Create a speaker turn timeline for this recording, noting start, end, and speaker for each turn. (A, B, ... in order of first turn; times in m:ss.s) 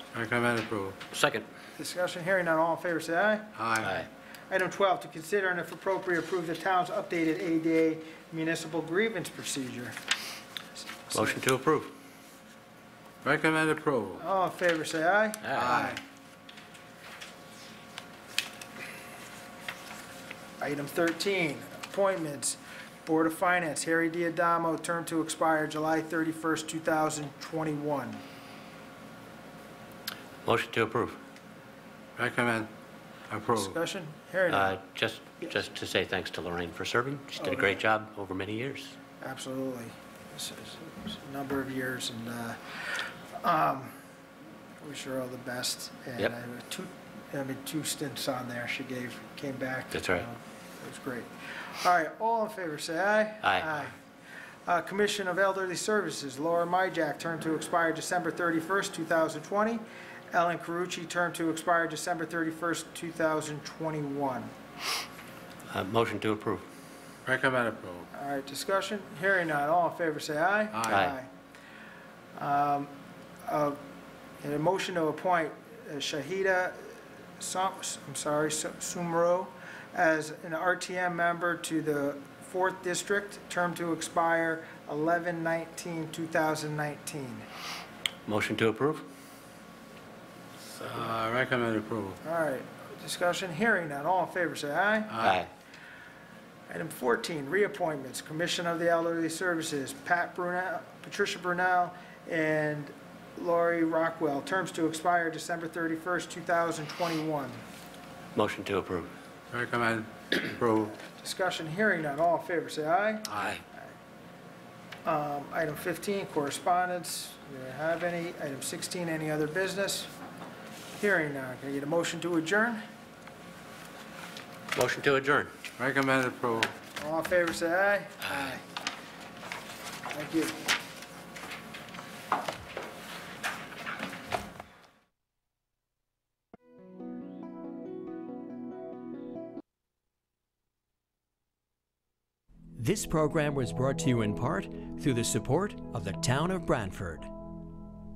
0:00.1-0:01.0 A
0:01.1-0:01.4 B
0:01.8-0:03.9 C
0:03.6-0:03.9 A
0:03.8-0:04.1 B
0:04.5-0:10.0 C
0:11.1-0:11.4 C
0:11.1-0:12.0 B
0:13.2-0:14.2 A
0:14.2-0:16.0 C
0:15.4-0:15.7 B
0:15.5-0:16.0 A
0:20.6-0:28.2 C
0:30.4-0:31.2 B
0:32.2-0:32.7 A
0:33.3-0:33.8 A
0:33.5-0:34.8 C
0:34.5-0:38.9 B
0:37.4-0:37.8 C
0:39.2-0:44.0 C
0:44.8-0:54.0 C
0:49.9-0:50.2 B
0:54.6-1:04.5 C
1:05.7-1:06.6 B
1:07.2-1:08.1 A
1:08.1-1:11.3 C
1:10.7-1:11.0 A
1:10.9-1:11.2 B
1:12.4-1:12.9 C
1:13.4-1:13.8 C
1:14.4-1:27.4 C
1:28.3-1:29.1 B
1:30.7-1:32.2 A
1:32.2-1:35.2 C
1:35.1-1:35.4 A
1:35.2-1:35.5 B
1:36.7-1:47.6 C
1:48.3-1:49.1 B
1:49.5-1:50.9 A
1:50.9-1:53.3 C
1:55.0-2:00.1 C
2:00.9-2:02.8 C
2:04.7-2:05.5 B
2:05.8-2:06.7 A
2:07.0-2:08.6 C
2:10.1-2:10.6 C
2:22.8-2:27.3 D